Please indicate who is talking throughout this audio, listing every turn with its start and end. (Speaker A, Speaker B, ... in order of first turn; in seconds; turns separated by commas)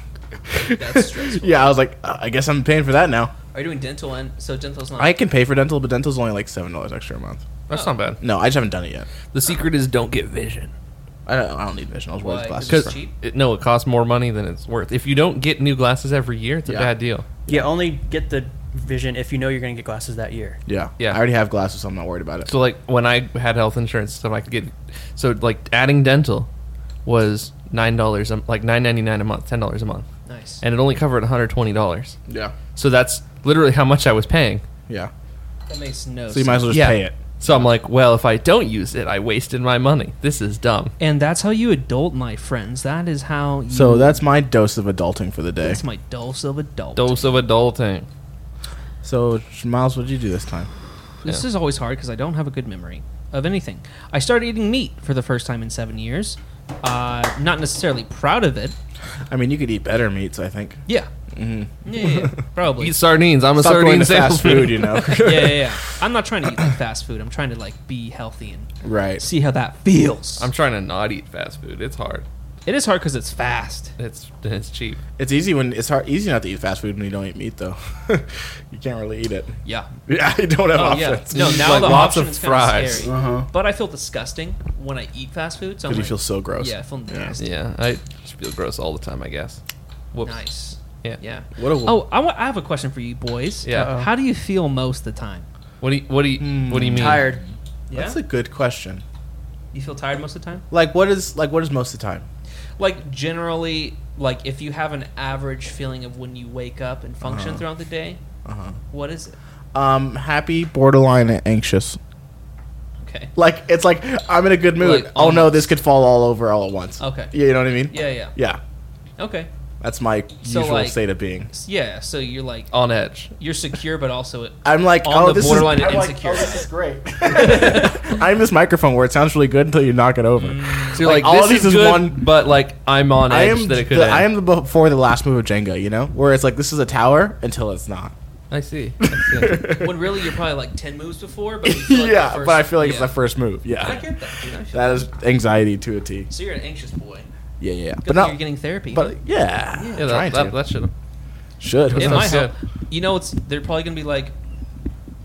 Speaker A: 0.5-3.3, Speaker B: 0.8-1.7, Speaker B: 3.5-5.2, Speaker A: 5.0-7.4, Speaker C: 7.7-8.2, Speaker B: 7.7-8.0, Speaker A: 8.2-9.1, Speaker C: 9.3-10.7, Speaker A: 11.2-12.9, Speaker B: 12.2-13.1, Speaker C: 12.7-17.2, Speaker A: 16.6-16.9, Speaker A: 17.4-17.7, Speaker D: 17.5-20.6, Speaker A: 20.7-22.5, Speaker C: 22.5-26.5, Speaker C: 27.0-30.1, Speaker B: 30.2-30.6, Speaker C: 30.6-32.2, Speaker A: 32.3-32.5, Speaker C: 32.7-34.6, Speaker B: 35.7-36.8, Speaker A: 36.3-37.2, Speaker C: 36.7-40.9, Speaker B: 41.0-44.2, Speaker A: 43.7-45.8, Speaker B: 45.6-47.3, Speaker C: 47.0-48.1, Speaker A: 49.0-50.7, Speaker B: 51.2-58.7, Speaker A: 59.3-62.3, Speaker B: 61.8-63.0, Speaker C: 62.8-65.2, Speaker A: 63.6-65.8, Speaker B: 65.2-70.5, Speaker A: 68.8-69.2, Speaker C: 70.4-72.2, Speaker B: 72.7-73.9, Speaker C: 74.0-75.0, Speaker A: 75.2-79.5, Speaker B: 79.6-79.9, Speaker A: 80.0-81.7, Speaker B: 80.8-87.5, Speaker C: 81.3-83.1, Speaker A: 83.0-83.5, Speaker A: 85.9-87.3, Speaker C: 87.4-89.6, Speaker C: 90.1-90.4, Speaker B: 90.2-95.5, Speaker A: 91.5-92.0, Speaker C: 93.6-94.0, Speaker D: 93.7-94.1, Speaker C: 95.8-97.3, Speaker A: 96.4-99.0, Speaker D: 96.9-97.4, Speaker B: 97.9-98.2, Speaker B: 99.7-100.6, Speaker A: 100.7-102.2, Speaker B: 102.8-108.2, Speaker A: 107.2-107.6, Speaker A: 108.4-108.8, Speaker B: 108.9-109.3, Speaker A: 109.7-112.0, Speaker B: 113.0-113.3, Speaker A: 113.3-118.6, Speaker B: 114.8-115.7, Speaker B: 117.0-118.3, Speaker B: 119.2-119.5, Speaker A: 119.8-121.5, Speaker B: 120.4-122.7, Speaker C: 122.7-123.3, Speaker B: 123.4-126.7, Speaker A: 124.6-132.3, Speaker B: 127.2-128.2, Speaker B: 130.4-131.2, Speaker C: 130.9-134.3, Speaker A: 133.2-138.1, Speaker C: 138.5-139.7, Speaker A: 139.0-140.2, Speaker B: 139.7-143.2, Speaker A: 141.6-144.1, Speaker B: 143.7-145.1, Speaker A: 144.7-146.3, Speaker B: 146.3-147.3, Speaker A: 147.6-148.4, Speaker B: 148.0-149.2, Speaker A: 148.9-150.5, Speaker B: 149.7-150.2, Speaker C: 150.0-150.9, Speaker A: 151.6-152.4, Speaker C: 151.9-152.5, Speaker B: 151.9-154.3